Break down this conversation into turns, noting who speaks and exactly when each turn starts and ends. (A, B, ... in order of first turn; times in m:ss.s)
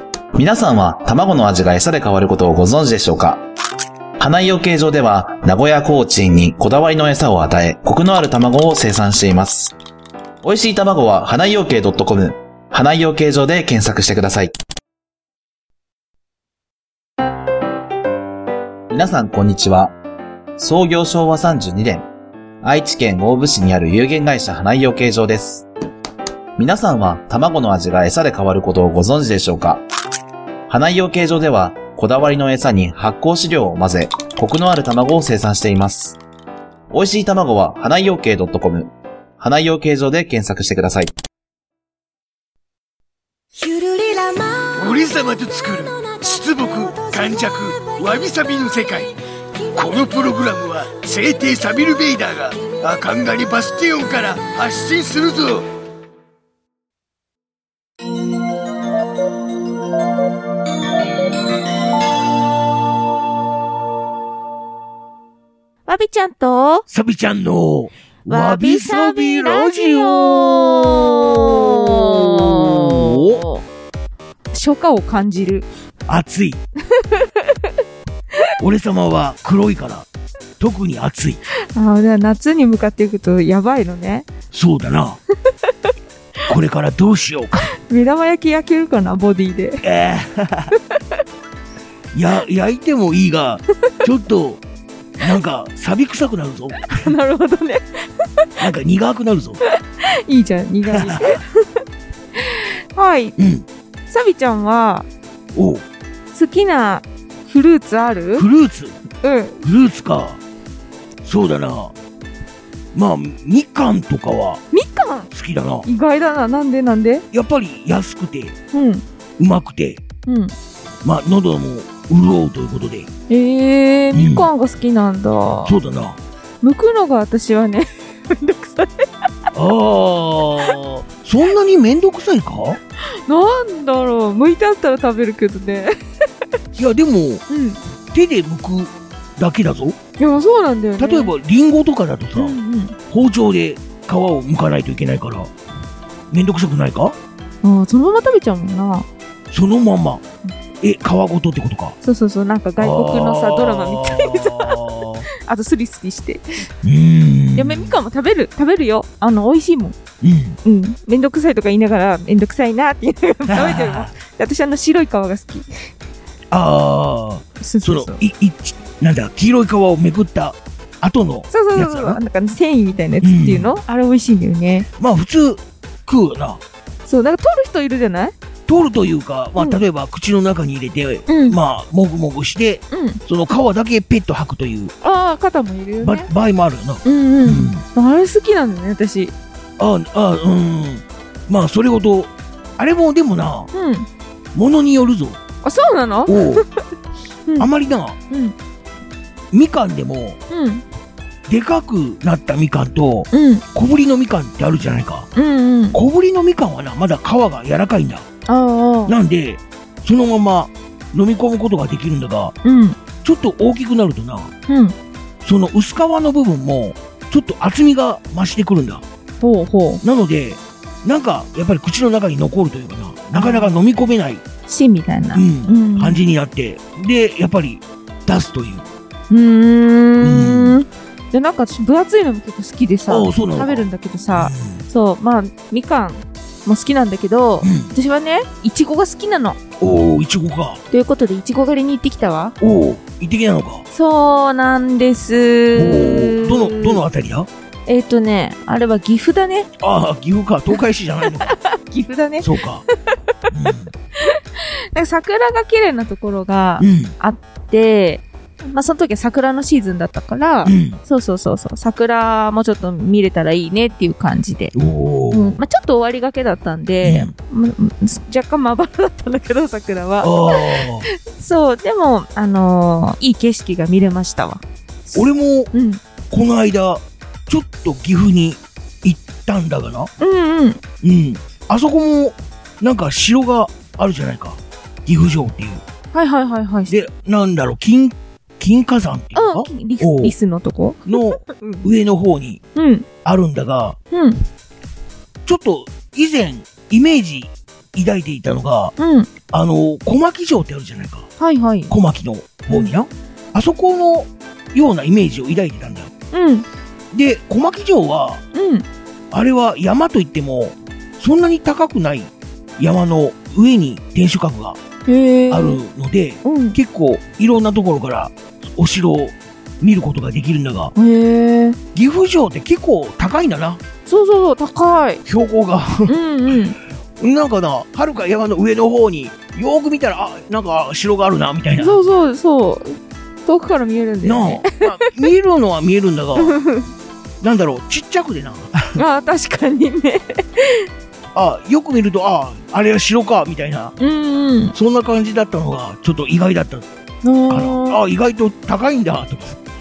0:00.3-0:03.4 A
0:04.2-0:09.7 A
0:10.4-0:14.5 A
0:18.9-0:19.9 A
0:20.6-0:22.0 A
0:22.6-0:25.6 A
0:26.6-0:29.8 A
0:30.7-0:36.2 A
0:36.9-0:41.1 A
0:43.6-0:49.1 B
0:49.7-0:55.7 B
1:05.8-1:06.8 C
1:06.9-1:13.4 B
1:08.2-1:13.6 C
1:14.5-1:15.7 C
1:16.1-1:16.6 B
1:16.9-1:17.7 C
1:18.6-1:20.1 B
1:20.6-1:21.4 B
1:21.7-1:24.3 C
1:24.5-1:25.2 B
1:26.5-1:27.7 B
1:27.8-1:29.8 C
1:29.8-1:30.7 B
1:32.1-1:34.6 B
1:35.2-1:37.1 B
1:36.8-1:38.5 C
1:38.6-1:39.6 B
1:39.6-1:41.6 C
1:40.9-1:41.4 B
1:42.4-1:43.3 C
1:43.4-1:43.6 B
1:44.1-1:45.1 C
1:45.5-1:45.8 B
1:46.3-1:48.5 C
1:48.4-1:49.0 B
1:49.2-1:49.6 C
1:49.6-1:50.4 B
1:51.2-1:51.9 B
1:52.9-1:54.6 B
1:54.7-1:55.3 C
1:55.3-1:55.9 B
1:55.8-1:57.2 C
1:57.3-1:58.5 B
1:58.7-1:59.0 C
1:59.4-2:00.0 B
2:00.2-2:00.5 C
2:01.0-2:03.1 B
2:03.3-2:05.8 C
2:04.1-2:04.5 B
2:05.6-2:06.2 B
2:06.6-2:09.1 C
2:09.5-2:12.8 B
2:13.1-2:15.9 C
2:16.8-2:17.4 B
2:17.5-2:17.8 C
2:18.1-2:20.0 B
2:20.2-2:21.3 C
2:21.0-2:22.6 B
2:22.4-2:23.0 C
2:23.1-2:25.5 B
2:26.3-2:27.1 B
2:27.6-2:29.0 C
2:29.5-2:30.2 B
2:30.8-2:31.9 B
2:32.0-2:36.6 C
2:32.8-2:35.2 B
2:36.8-2:38.0 B
2:37.5-2:40.0 C
2:40.2-2:40.6 B
2:40.6-2:45.6 C
2:43.5-2:44.1 B
2:46.5-2:52.2 B
2:47.6-2:48.2 C
2:51.5-2:54.9 C
2:53.2-2:53.8 B
2:55.0-2:56.6 B
2:57.0-2:58.3 C
2:58.7-3:04.9 B
3:01.3-3:01.6 C
3:02.9-3:03.2 C
3:05.0-3:06.3 C
3:06.0-3:07.8 B
3:07.0-3:09.3 C
3:09.8-3:13.7 B
3:13.7-3:14.1 C
3:14.5-3:15.4 B
3:15.6-3:16.8 C
3:16.3-3:16.6 B
3:17.6-3:18.2 B
3:18.3-3:18.5 C
3:19.5-3:20.4 B
3:20.5-3:20.8 C
3:21.5-3:25.3 B
3:23.3-3:23.6 C
3:25.3-3:26.0 C
3:25.9-3:28.2 B
3:28.5-3:29.2 C
3:29.1-3:32.5 B
3:32.6-3:33.0 C
3:33.2-3:34.5 B
3:34.7-3:34.9 C
3:35.4-3:39.0 B
3:39.4-3:40.0 C
3:40.0-3:44.4 B
3:43.3-3:43.8 C
3:44.7-3:46.2 C
3:45.3-3:48.8 B
3:49.3-3:59.6 C
3:50.2-3:50.8 B
3:53.1-3:54.8 B
3:57.6-3:57.9 B
3:59.8-4:00.8 B
4:00.9-4:02.6 C
4:02.6-4:03.8 B
4:03.9-4:07.0 C
4:05.7-4:07.5 B
4:07.9-4:09.7 C
4:09.8-4:11.5 B
4:11.4-4:12.5 C
4:12.4-4:12.8 B
4:13.1-4:13.3 C
4:13.5-4:13.9 B
4:14.2-4:24.7 C
4:16.8-4:17.1 B
4:20.6-4:21.0 B
4:24.7-4:25.6 B
4:25.3-4:36.0 C
4:27.0-4:27.3 B
4:30.2-4:31.1 B
4:35.1-4:35.7 B
4:36.3-4:40.1 B
4:40.2-4:40.8 C
4:41.0-4:45.8 B
4:46.1-4:46.9 C
4:46.9-4:50.3 B
4:49.3-4:51.8 C
4:51.0-4:52.6 B
4:52.7-4:53.0 C
4:53.2-4:54.0 B
4:54.1-4:54.4 C
4:55.4-4:58.9 B
4:59.0-4:59.3 C
4:59.5-5:01.3 B
5:01.4-5:01.9 C
5:01.9-5:06.1 B
5:06.3-5:06.6 C
5:07.1-5:08.4 B
5:08.5-5:08.8 C
5:09.3-5:14.8 B
5:15.0-5:15.8 C
5:15.5-5:20.9 B
5:16.4-5:16.8 C
5:21.0-5:21.8 C
5:21.9-5:23.8 B
5:24.0-5:25.2 C
5:25.2-5:26.2 B
5:26.0-5:26.8 C
5:27.2-5:32.0 B
5:31.8-5:34.8 C
5:34.2-5:36.6 B
5:36.4-5:36.9 C
5:37.4-5:39.0 B
5:38.9-5:40.9 C
5:41.3-5:43.9 B
5:44.0-5:44.8 C
5:44.7-5:46.9 B
5:47.2-5:48.0 C
5:47.5-5:49.6 B